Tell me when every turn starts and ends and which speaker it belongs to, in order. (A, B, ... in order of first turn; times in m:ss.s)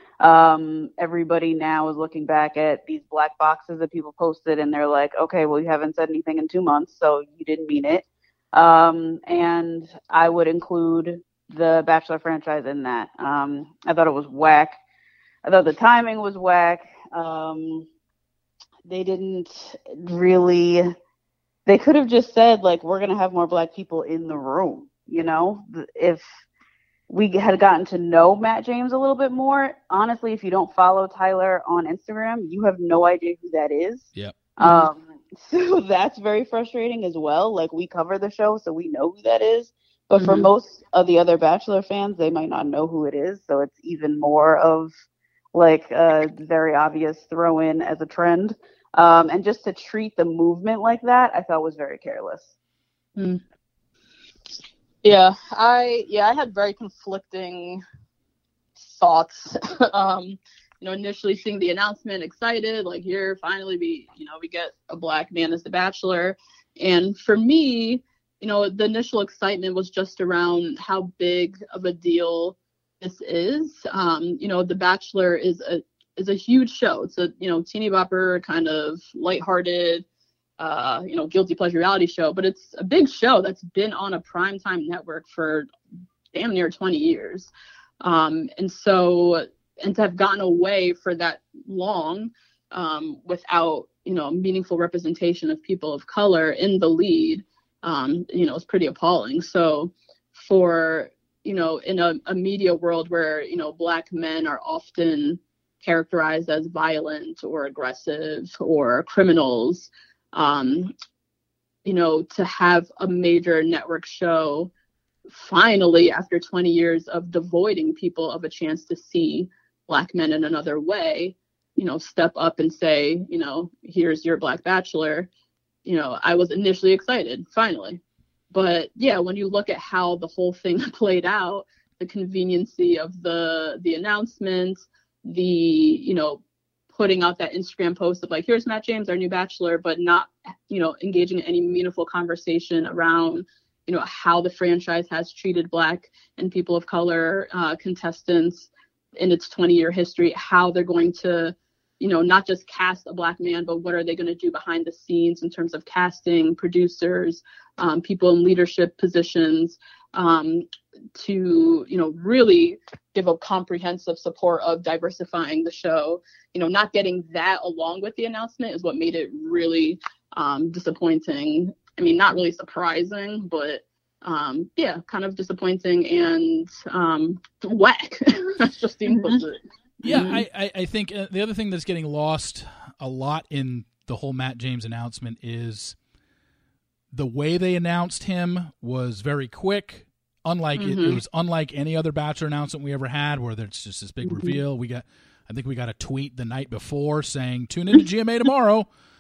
0:00.2-0:14.8 A
0:15.4-0:17.9 A
0:18.9-0:20.9 A
0:21.6-0:26.2 A
0:27.1-0:34.1 A
0:34.6-0:44.9 A
0:34.6-0:34.9 B
0:40.1-0:40.5 B
0:45.5-0:52.5 A
0:53.2-0:53.4 B
0:55.0-0:57.8 B
0:58.8-1:20.0 B
1:20.6-1:25.7 B
1:26.3-1:27.5 B
1:28.0-1:50.9 B
1:51.8-1:54.7 B
1:55.3-2:05.3 B
2:05.8-2:08.0 B
2:08.5-2:59.6 B
3:00.0-3:06.0 C
3:00.0-3:00.4 A
3:07.1-3:18.9 C
3:10.8-3:11.2 B